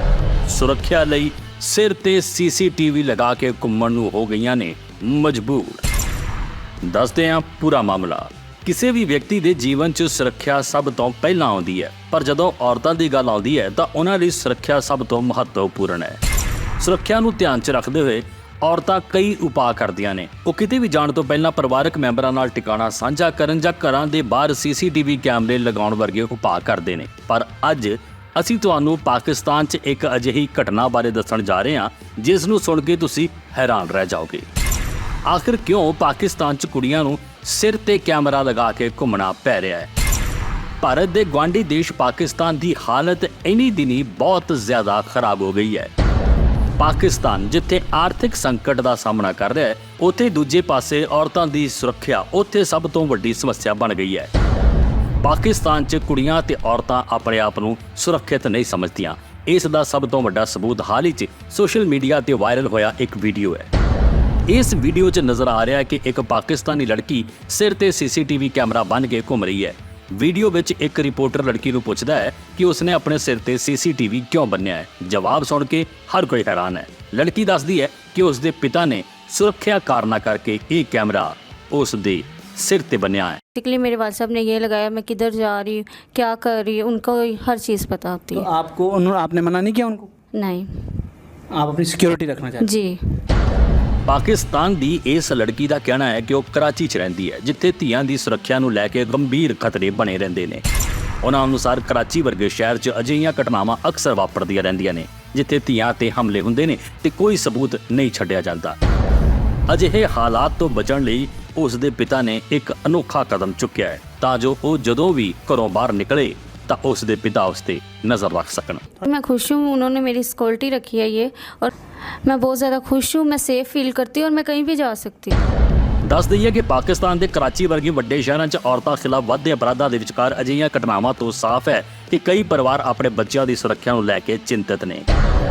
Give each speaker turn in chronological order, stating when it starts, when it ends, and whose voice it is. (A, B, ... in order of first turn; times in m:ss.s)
0:00.5-0:05.8 A
0:06.8-0:16.2 A
0:16.8-0:34.5 A
0:35.3-0:39.9 A
0:40.8-0:45.9 A
0:46.8-0:54.3 A
0:55.2-1:03.7 A
1:04.5-1:23.4 A
1:23.6-1:28.5 B
1:28.4-1:30.1 C
1:30.3-1:31.0 B
1:31.5-1:32.7 C
1:32.6-1:33.0 B
1:34.1-1:40.6 A
1:41.2-1:48.8 A
1:49.7-1:58.9 A
1:59.0-2:01.7 B
2:02.2-2:05.4 B
2:06.1-2:15.1 A